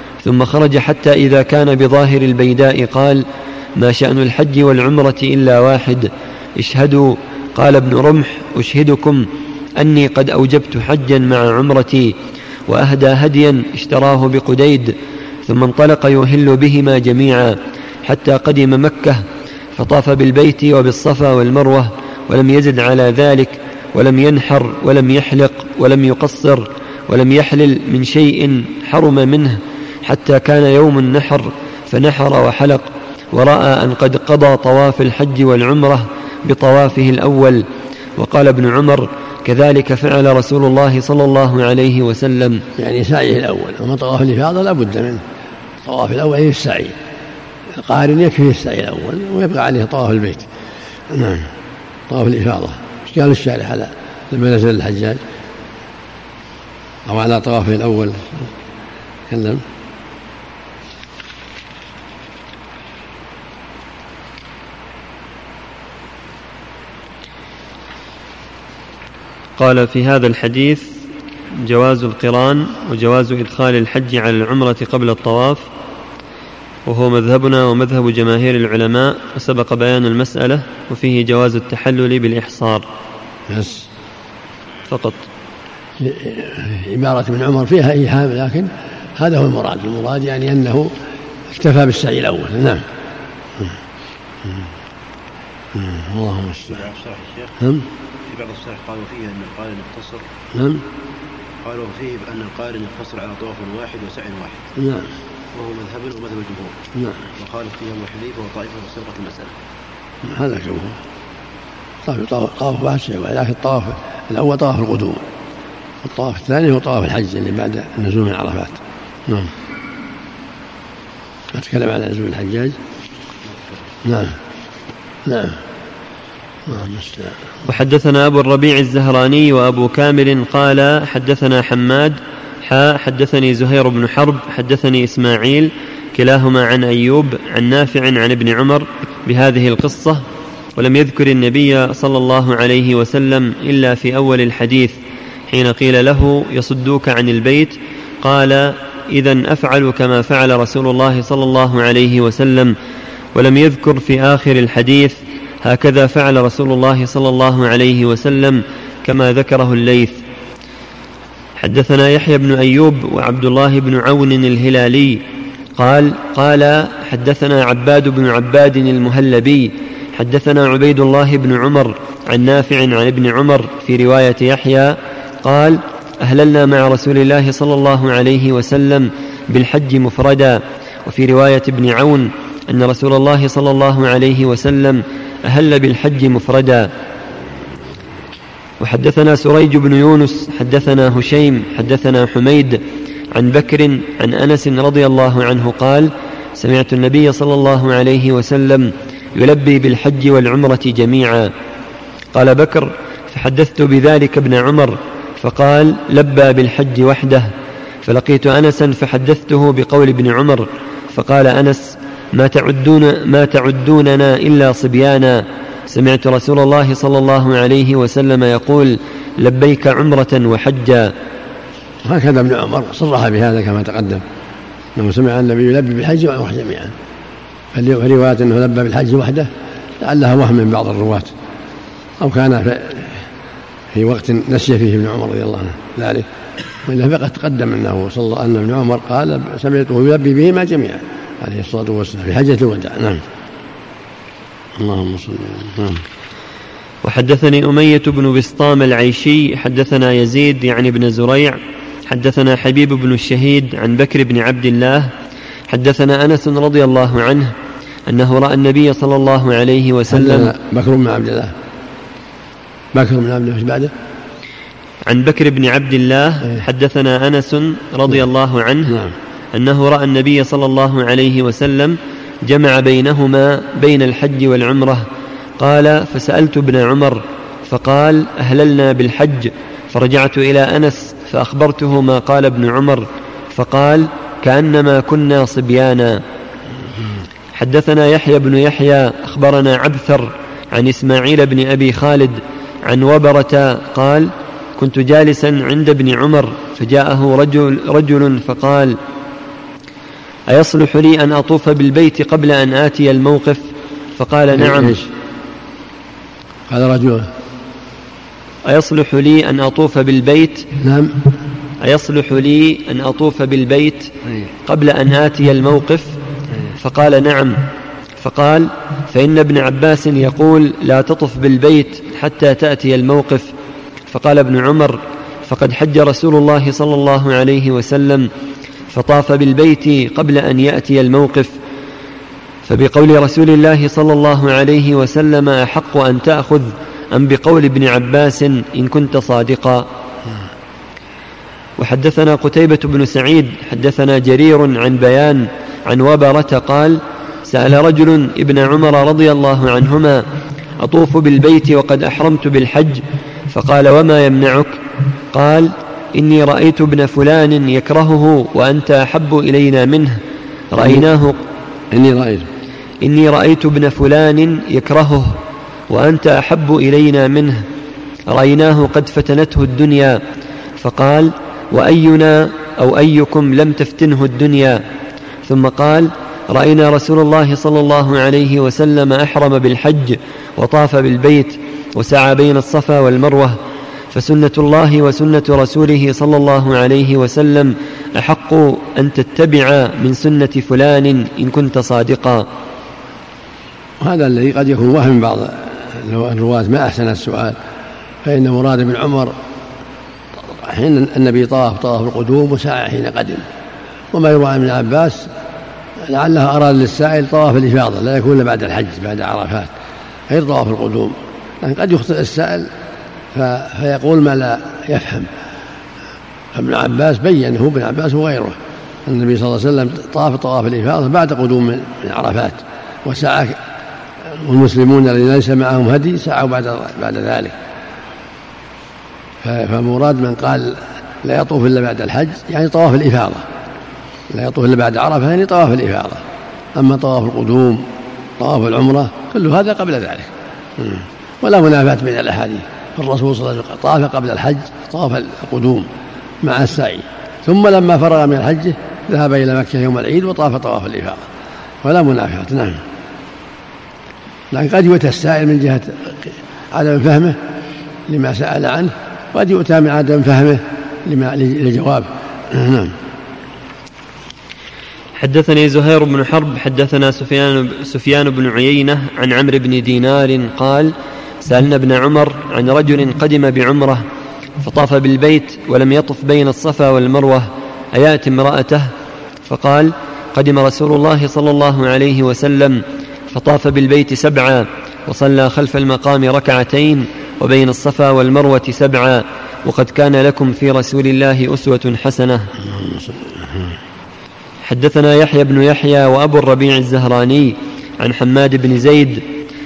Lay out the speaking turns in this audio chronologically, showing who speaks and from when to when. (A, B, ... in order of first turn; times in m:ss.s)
0:00.2-0:03.2 A
0:03.8-0:12.1 A
0:12.7-0:14.9 A
0:15.4-0:19.2 A
0:19.8-0:37.6 A
0:38.2-0:42.6 A
0:42.8-0:45.2 B
0:45.8-0:46.9 B
0:47.7-0:50.5 B
0:51.1-0:51.5 B
0:52.1-0:55.2 B
0:57.0-0:58.5 B
0:59.3-0:59.6 B
1:09.6-1:10.9 A
1:11.6-1:15.6 A
1:16.8-1:22.8 A
1:23.5-1:23.8 B
1:24.9-1:25.2 A
1:26.0-1:30.9 B
1:31.5-1:32.8 B
1:35.7-1:36.8 B
1:36.7-1:37.6 C
1:37.6-1:37.8 B
1:38.3-1:40.2 C
1:40.5-1:40.8 B
1:41.6-1:44.7 C
1:44.8-1:45.1 B
1:45.5-1:46.8 C
1:47.3-1:49.5 C
1:50.2-1:51.0 B
1:52.0-1:55.2 B
1:56.0-1:59.5 B
2:01.5-2:02.8 B
2:03.4-2:03.8 C
2:04.0-2:04.4 B
2:05.2-2:05.6 B
2:06.6-2:07.4 B
2:07.6-2:20.2 A
2:20.8-2:24.9 A
2:25.5-2:32.7 A
2:33.3-2:40.2 A
2:41.6-2:45.2 A
2:45.8-3:06.9 A
3:08.8-3:12.8 A
3:13.3-3:21.5 A
3:22.3-3:27.5 A
3:28.0-3:41.1 A
3:42.0-3:44.2 B
3:45.0-3:46.9 B
3:47.7-3:51.3 B
3:52.2-3:53.3 B
3:53.9-3:56.2 B
3:56.8-4:03.2 B
4:04.8-4:06.0 B
4:07.0-4:15.1 A
4:15.7-4:17.5 A
4:18.1-4:20.5 A
4:20.1-4:21.5 B
4:22.9-4:23.9 B
4:25.0-4:29.0 A
4:28.9-4:29.1 B
4:29.5-4:35.1 A
4:35.6-4:46.2 A
4:47.5-4:59.0 A
5:00.5-5:05.1 A
5:04.5-5:05.0 B
5:06.7-5:07.3 B
5:08.6-5:10.7 A
5:10.8-5:11.2 B
5:11.8-5:14.1 A
5:14.6-5:16.2 A
5:16.8-5:17.6 A
5:18.2-5:23.5 A
5:24.1-5:28.3 A
5:28.9-5:31.5 A
5:32.6-5:39.8 A
5:41.8-5:50.2 A
5:50.8-5:54.8 A
5:55.3-6:00.2 A
6:00.7-6:01.4 A
6:00.8-6:01.0 B
6:01.9-6:02.5 B
6:03.0-6:05.4 A
6:05.9-6:07.6 A
6:08.3-6:10.2 A
6:10.8-6:14.8 A
6:15.4-6:23.6 A
6:24.1-6:32.4 A
6:34.0-6:37.5 B
6:38.2-6:39.3 B
6:40.3-6:43.4 B
6:44.1-6:45.3 B
6:46.0-6:49.7 B
6:50.3-6:52.7 B
6:53.3-6:55.3 B
6:56.5-7:03.6 B
7:04.4-7:07.5 B
7:09.4-7:13.4 B
7:14.3-7:16.2 B
7:16.8-7:17.8 B
7:18.4-7:25.9 B
7:26.4-7:31.2 B
7:31.8-7:32.8 B
7:34.5-7:37.4 B
7:38.1-7:42.9 B
7:45.2-7:54.0 A
7:54.6-7:58.9 A
7:59.4-8:12.5 A
8:12.6-8:13.8 B
8:14.6-8:19.2 A